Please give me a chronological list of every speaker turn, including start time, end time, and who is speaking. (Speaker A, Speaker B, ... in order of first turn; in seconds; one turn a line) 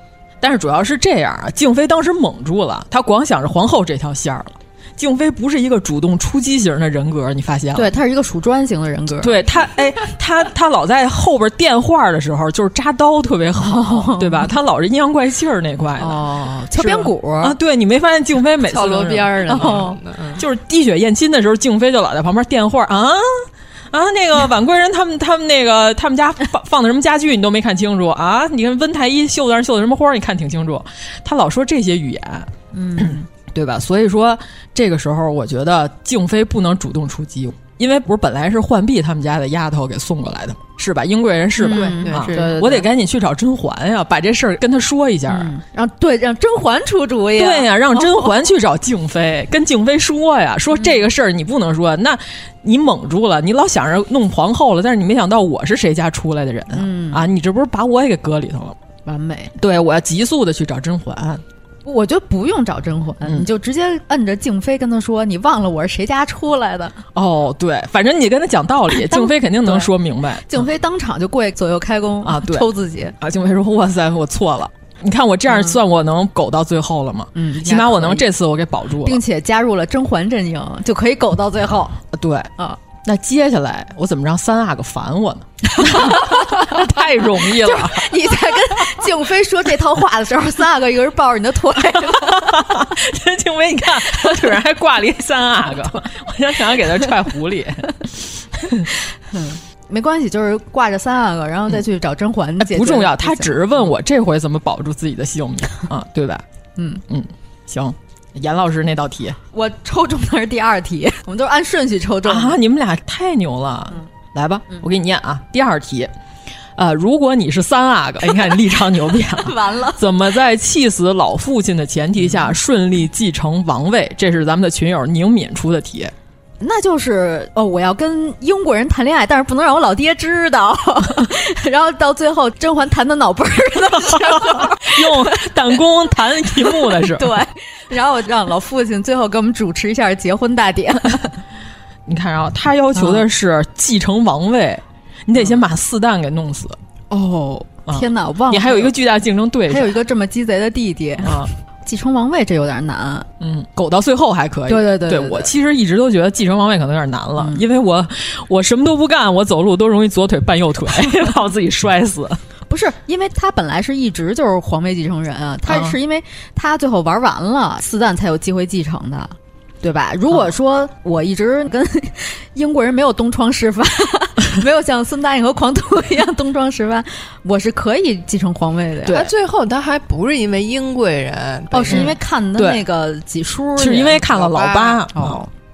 Speaker A: 0.4-8.0
Speaker B: 7.8-9.4
Speaker A: 9.2-19.8
Speaker B: 13.6-14.5
Speaker B: 16.0-17.6
Speaker C: 18.7-20.4
Speaker B: 19.5-19.9
Speaker A: 20.4-45.5
Speaker B: 32.7-33.3
Speaker B: 41.6-42.9
Speaker C: 41.6-42.8
Speaker B: 45.3-48.2
Speaker A: 47.4-58.8
Speaker B: 56.7-57.2
Speaker B: 59.0-59.5
Speaker A: 59.6-61.4
Speaker B: 61.8-67.0
Speaker A: 67.1-70.7
Speaker B: 69.0-69.9
Speaker B: 70.5-73.1
Speaker A: 72.2-79.2
Speaker B: 77.3-78.3
Speaker B: 79.0-82.0
Speaker A: 82.1-88.1
Speaker B: 85.8-86.8
Speaker B: 87.4-92.7
Speaker A: 92.0-98.9
Speaker B: 99.3-103.9
Speaker A: 102.6-106.4
Speaker B: 106.8-107.0
Speaker A: 107.1-109.4
Speaker B: 109.5-112.6
Speaker A: 112.2-116.1
Speaker A: 116.8-126.1
Speaker B: 119.3-120.1
Speaker B: 126.6-135.5
Speaker A: 134.0-137.4
Speaker B: 136.7-141.4
Speaker A: 142.1-146.8
Speaker B: 143.0-143.2
Speaker B: 147.1-148.9
Speaker A: 147.9-150.0
Speaker B: 149.7-153.3
Speaker A: 151.2-151.5
Speaker A: 153.4-162.4
Speaker B: 154.7-155.5
Speaker B: 157.4-157.6
Speaker B: 162.7-179.3
Speaker A: 165.7-166.0
Speaker C: 179.1-182.1
Speaker B: 181.7-184.2
Speaker A: 181.9-182.8
Speaker A: 183.8-185.4
Speaker C: 184.2-185.0
Speaker B: 185.1-185.5